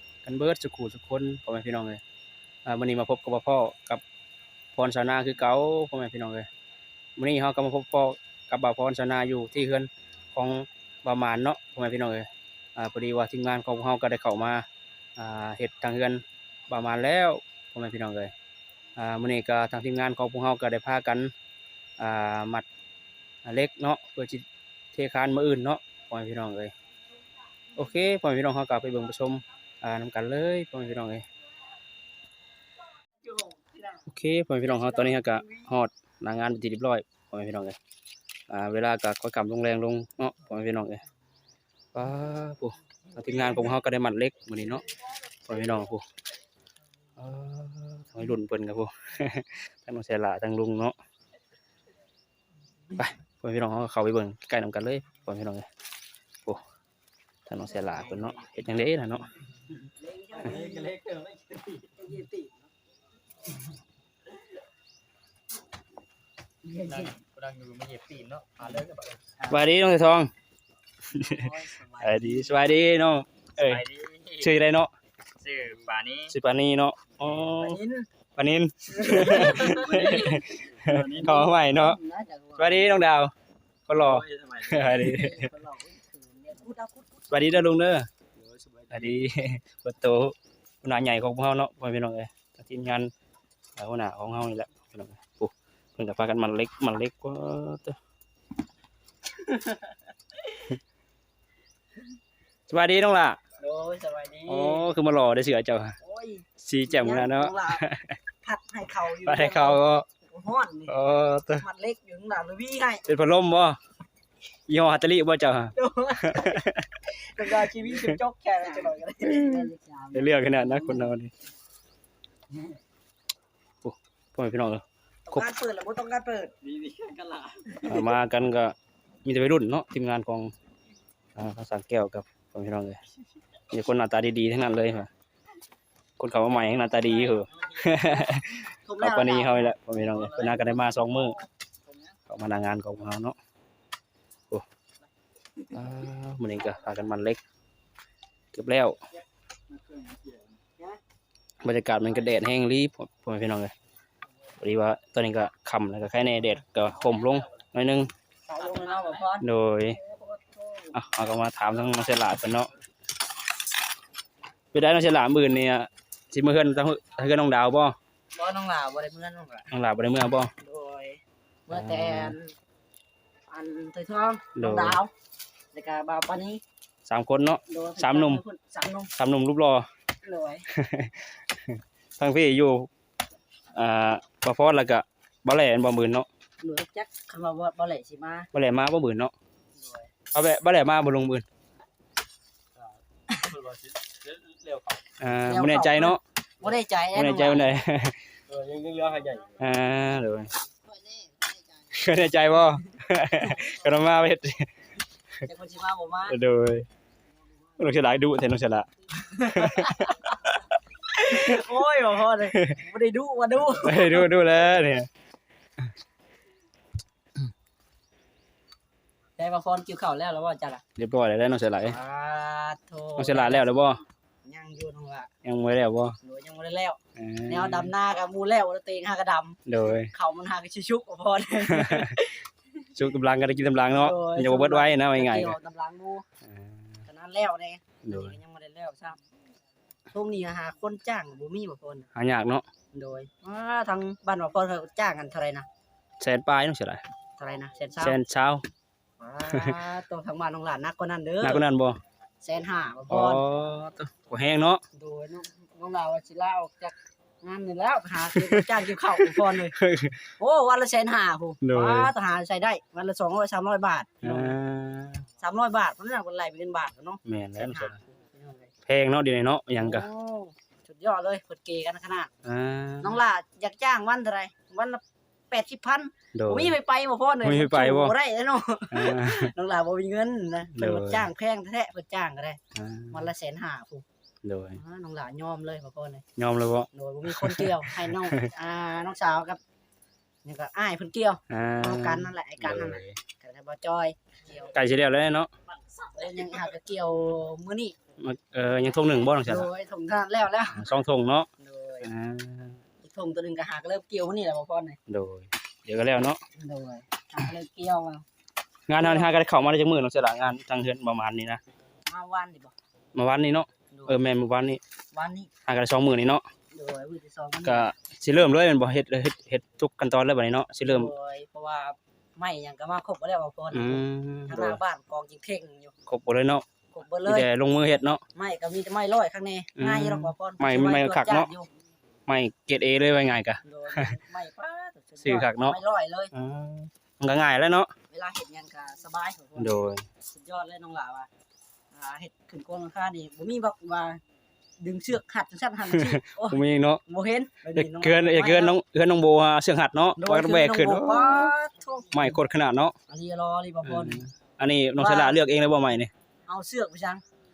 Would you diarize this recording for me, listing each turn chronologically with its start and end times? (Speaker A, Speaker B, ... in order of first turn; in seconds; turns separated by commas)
Speaker A: 0.2-2.0, Speaker A: 2.6-4.0, Speaker A: 4.7-6.5, Speaker A: 7.2-14.7, Speaker A: 15.2-18.3, Speaker A: 18.9-21.3, Speaker A: 22.0-22.7, Speaker A: 23.4-26.7, Speaker A: 27.8-31.2, Speaker A: 34.1-37.8, Speaker B: 35.0-35.5, Speaker A: 38.5-41.0, Speaker A: 41.9-44.8, Speaker A: 45.4-46.0, Speaker A: 47.2-50.9, Speaker A: 53.0-55.7, Speaker A: 57.5-59.3, Speaker B: 59.9-61.1, Speaker C: 60.6-61.3, Speaker B: 61.7-62.6, Speaker B: 66.7-67.1, Speaker C: 66.8-69.4, Speaker A: 69.5-70.3, Speaker A: 71.1-74.9, Speaker B: 71.2-72.2, Speaker C: 73.7-74.5, Speaker C: 75.4-76.3, Speaker A: 76.3-77.8, Speaker B: 77.5-78.1, Speaker A: 78.4-82.0, Speaker B: 78.9-83.0, Speaker C: 79.9-81.4, Speaker A: 82.6-83.3, Speaker A: 83.9-85.5, Speaker C: 84.2-84.9, Speaker B: 84.7-87.5, Speaker A: 87.3-88.1, Speaker C: 88.6-89.0, Speaker A: 88.9-93.1, Speaker A: 93.8-98.0, Speaker B: 99.5-99.8, Speaker A: 102.7-103.4, Speaker B: 103.6-104.9, Speaker A: 104.5-106.0, Speaker B: 106.0-107.8, Speaker A: 106.6-108.2, Speaker B: 108.4-111.0, Speaker A: 109.2-110.1, Speaker A: 110.9-111.6, Speaker B: 111.6-113.0, Speaker A: 113.0-113.8, Speaker A: 114.7-118.2, Speaker B: 115.7-121.1, Speaker A: 119.2-121.3, Speaker A: 123.8-125.5, Speaker B: 125.3-126.5, Speaker C: 126.7-127.8, Speaker A: 127.8-130.5, Speaker A: 131.4-133.0, Speaker A: 133.7-135.1, Speaker A: 136.2-141.4, Speaker B: 137.8-140.9, Speaker A: 142.3-143.4, Speaker A: 145.7-147.4, Speaker A: 148.5-149.0, Speaker A: 151.6-153.7, Speaker A: 154.6-158.1, Speaker B: 158.5-160.9, Speaker A: 159.4-160.0, Speaker A: 160.9-162.7, Speaker A: 164.7-167.9, Speaker B: 168.3-169.7, Speaker A: 169.7-170.5, Speaker B: 170.6-172.5, Speaker A: 171.7-172.4, Speaker B: 173.5-175.1, Speaker A: 174.6-175.0, Speaker B: 175.7-176.6, Speaker A: 177.1-178.4, Speaker B: 177.6-179.1, Speaker A: 179.2-179.9, Speaker B: 180.2-180.7, Speaker A: 180.7-182.9, Speaker A: 183.7-186.3, Speaker B: 186.6-188.5, Speaker A: 188.5-189.3, Speaker A: 190.3-191.4, Speaker B: 193.3-193.6, Speaker C: 193.7-195.0, Speaker A: 195.2-196.2, Speaker B: 195.5-197.8, Speaker A: 197.1-198.2, Speaker C: 198.5-199.6, Speaker A: 199.6-200.6, Speaker A: 201.9-204.7, Speaker B: 205.4-206.4, Speaker A: 206.3-206.9, Speaker A: 207.8-210.6, Speaker B: 209.2-210.5, Speaker B: 211.1-214.3, Speaker A: 211.2-211.6, Speaker A: 212.5-212.8, Speaker A: 213.7-215.1, Speaker B: 219.4-220.8, Speaker A: 221.0-222.0, Speaker B: 221.8-223.7, Speaker A: 223.2-224.0, Speaker B: 224.4-225.3, Speaker A: 225.4-226.2, Speaker B: 226.2-229.6, Speaker A: 227.2-227.9, Speaker A: 229.7-230.1, Speaker B: 230.1-232.4, Speaker A: 231.7-232.1, Speaker A: 232.9-235.6, Speaker B: 233.9-236.2, Speaker A: 236.4-237.0, Speaker B: 237.1-239.2, Speaker A: 238.0-238.3, Speaker B: 240.1-242.1, Speaker A: 242.1-242.6, Speaker B: 242.9-245.7, Speaker A: 246.2-247.0, Speaker B: 247.4-248.2, Speaker A: 248.0-248.7, Speaker B: 249.2-251.6, Speaker A: 249.5-249.8, Speaker A: 251.4-252.0, Speaker B: 252.4-253.4, Speaker A: 253.1-254.8, Speaker B: 254.9-259.8, Speaker A: 258.3-260.3, Speaker B: 260.4-264.6, Speaker A: 261.6-262.1, Speaker A: 264.2-265.3, Speaker B: 265.4-268.7, Speaker A: 267.2-268.0, Speaker A: 268.9-270.1, Speaker B: 269.8-272.3, Speaker A: 272.4-273.2, Speaker B: 273.0-282.6, Speaker A: 276.3-276.8, Speaker A: 277.4-278.1, Speaker A: 278.9-279.5, Speaker A: 280.7-281.3, Speaker A: 282.8-283.3, Speaker B: 283.1-284.1, Speaker A: 284.4-284.8, Speaker B: 284.8-286.2, Speaker A: 286.4-288.4, Speaker B: 286.9-289.6, Speaker B: 290.4-294.7, Speaker A: 291.5-293.2, Speaker A: 294.7-295.5, Speaker B: 296.0-297.9, Speaker A: 298.2-299.7, Speaker B: 299.4-300.9, Speaker A: 300.7-301.5, Speaker B: 301.6-302.1, Speaker A: 302.0-302.8, Speaker B: 303.0-305.0, Speaker A: 305.1-306.4, Speaker B: 306.5-308.2, Speaker A: 308.9-311.6, Speaker B: 309.0-309.3, Speaker B: 312.1-312.7, Speaker A: 313.1-314.8, Speaker B: 313.9-314.2, Speaker B: 315.1-315.5, Speaker A: 315.7-316.4, Speaker B: 316.7-317.9, Speaker A: 317.6-321.1, Speaker B: 320.8-325.9, Speaker A: 323.7-324.8, Speaker A: 326.1-326.6, Speaker B: 326.9-327.5, Speaker A: 327.2-328.2, Speaker B: 328.3-331.7, Speaker A: 329.8-331.5, Speaker A: 332.3-334.1, Speaker B: 333.6-336.3, Speaker A: 335.2-335.8, Speaker A: 336.3-337.9, Speaker B: 338.1-341.3, Speaker A: 339.6-340.0, Speaker B: 341.9-344.2, Speaker B: 344.8-348.8, Speaker A: 345.9-347.0, Speaker A: 347.8-351.5, Speaker B: 350.2-352.4, Speaker A: 352.1-352.9, Speaker B: 353.1-354.3, Speaker A: 353.8-356.1, Speaker B: 355.0-355.4, Speaker B: 356.5-357.2